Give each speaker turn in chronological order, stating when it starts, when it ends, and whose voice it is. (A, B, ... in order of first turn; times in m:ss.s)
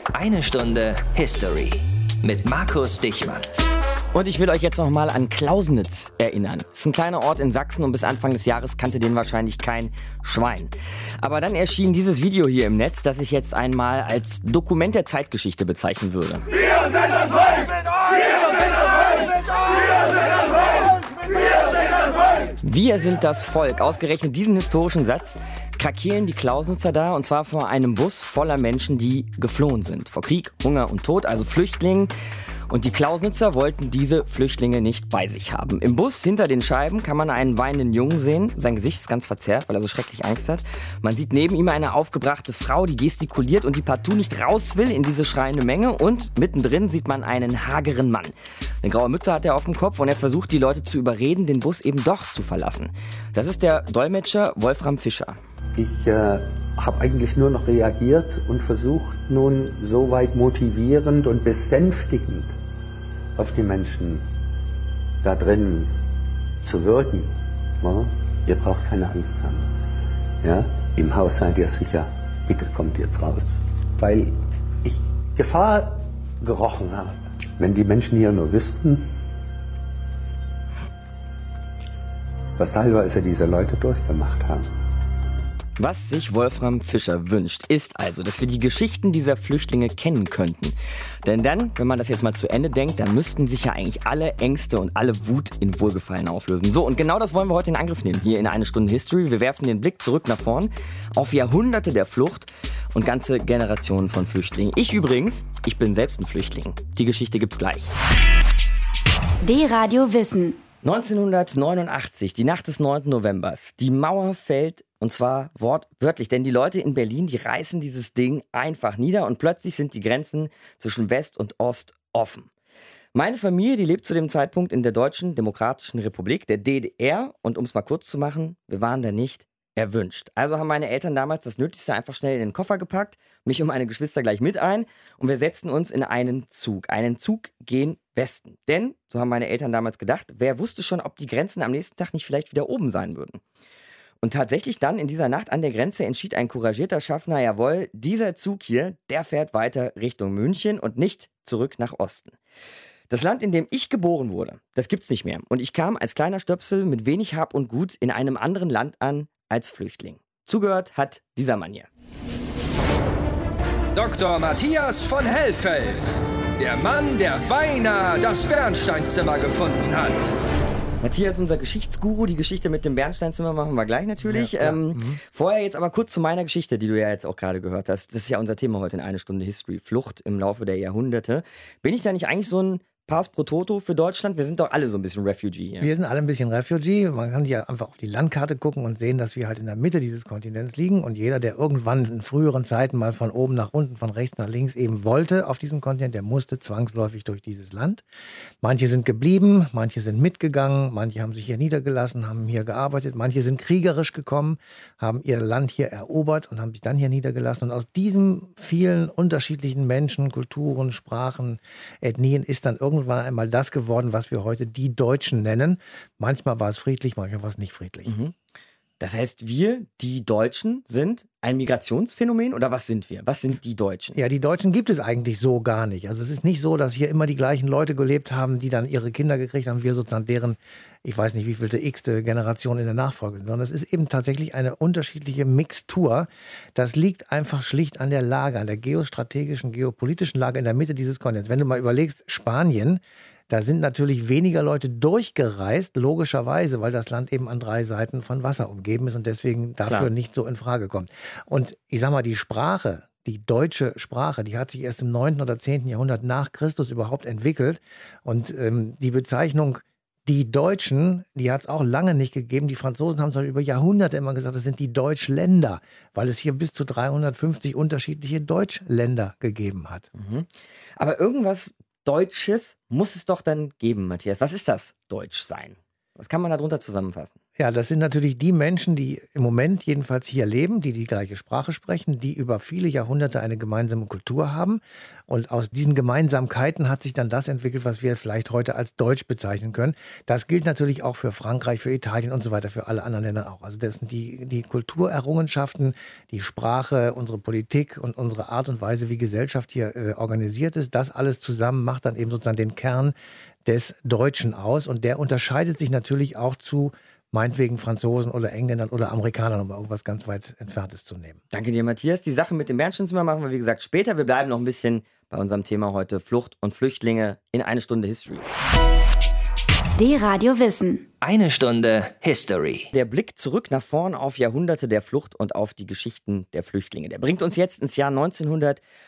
0:00.1-0:03.5 A
0:04.1-0:16.5 B
0:22.6-0:32.1 B
0:32.7-0:55.4 B
0:55.8-1:02.6 C
1:03.4-1:04.3 C
1:05.2-1:05.9 C
1:06.6-1:09.7 C
1:10.4-1:19.1 C
1:22.6-1:24.7 C
1:25.8-1:47.9 B
1:49.4-1:50.6 D
1:50.8-2:02.5 B
2:03.2-2:23.4 B
2:24.2-2:32.4 B
2:33.1-2:41.9 B
2:44.0-2:50.3 E
2:51.0-3:05.9 B
2:54.2-2:55.2 F
3:05.8-3:18.0 F
3:18.6-3:38.1 F
3:38.1-3:38.3 B
3:39.0-3:44.2 B
3:44.2-4:30.1 F
4:30.2-4:37.4 B
4:37.6-5:11.4 F
5:11.5-5:18.5 B
5:20.0-5:21.0 D
5:21.2-5:22.9 A
5:22.9-5:28.8 B